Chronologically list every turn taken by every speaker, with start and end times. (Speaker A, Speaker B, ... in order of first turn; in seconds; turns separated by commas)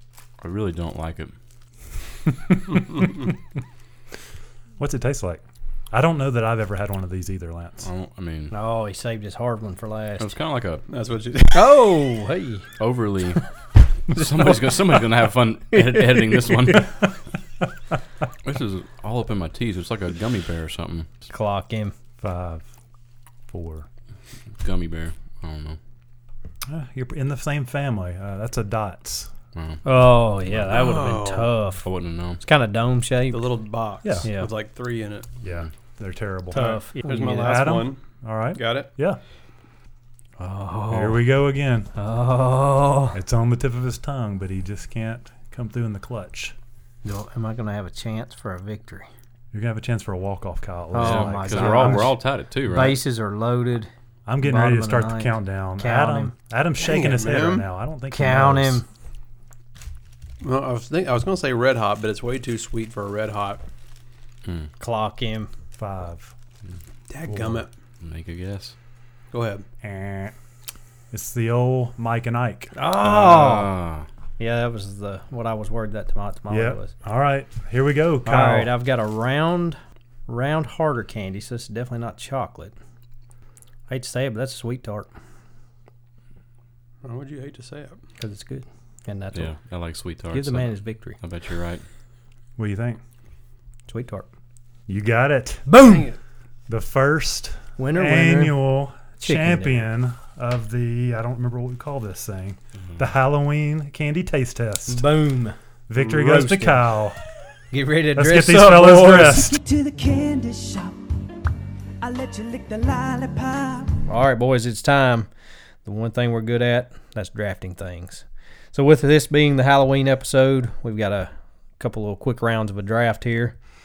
Speaker A: 0.4-1.3, Speaker B: 2.5-3.1, Speaker B: 4.8-7.9, Speaker A: 7.8-8.5, Speaker C: 8.5-10.3, Speaker A: 10.2-10.8, Speaker D: 10.9-11.9, Speaker C: 11.5-12.7, Speaker A: 12.8-13.4, Speaker A: 14.1-17.0, Speaker C: 14.1-14.8, Speaker C: 15.7-16.8, Speaker A: 18.4-21.1, Speaker C: 21.3-21.9, Speaker B: 22.2-22.6, Speaker B: 23.5-23.9, Speaker A: 24.6-25.8, Speaker B: 26.7-29.3, Speaker A: 29.5-30.7, Speaker C: 29.8-31.9, Speaker D: 30.7-31.5, Speaker A: 31.8-32.4, Speaker C: 32.4-33.6, Speaker D: 33.3-35.3, Speaker B: 34.0-34.3, Speaker C: 34.2-34.5, Speaker B: 35.4-39.2, Speaker C: 36.5-37.6, Speaker D: 36.6-38.0, Speaker D: 38.5-38.9, Speaker C: 40.4-41.2, Speaker B: 40.9-41.9, Speaker C: 41.9-43.2, Speaker B: 43.1-46.5, Speaker C: 47.0-49.1, Speaker B: 49.5-52.1, Speaker C: 50.9-53.9, Speaker A: 51.0-53.0, Speaker B: 54.2-58.8, Speaker C: 54.4-56.3, Speaker D: 56.8-57.7, Speaker C: 58.1-58.9, Speaker D: 60.4-63.6, Speaker A: 64.4-64.7, Speaker C: 64.8-65.5, Speaker B: 65.7-66.3, Speaker D: 67.1-67.7, Speaker B: 67.2-67.7, Speaker A: 68.0-68.7, Speaker D: 69.3-69.6, Speaker B: 69.8-70.3, Speaker B: 71.1-72.8, Speaker C: 72.7-73.7, Speaker A: 73.0-74.1, Speaker C: 74.4-76.9, Speaker B: 76.5-78.7, Speaker C: 78.2-82.7, Speaker C: 83.9-85.1, Speaker D: 87.0-88.0, Speaker C: 88.2-89.5, Speaker A: 89.3-91.8, Speaker C: 90.3-91.2, Speaker B: 92.6-93.0, Speaker C: 93.9-94.3, Speaker B: 94.9-95.7, Speaker C: 95.7-96.1, Speaker D: 95.8-96.2, Speaker B: 96.7-105.1, Speaker C: 97.8-98.6, Speaker C: 99.2-99.9, Speaker C: 104.9-106.8, Speaker B: 105.9-107.2, Speaker C: 107.7-109.5, Speaker B: 108.1-109.6, Speaker E: 109.5-111.0, Speaker E: 112.0-114.0, Speaker C: 114.1-115.3, Speaker C: 115.8-123.5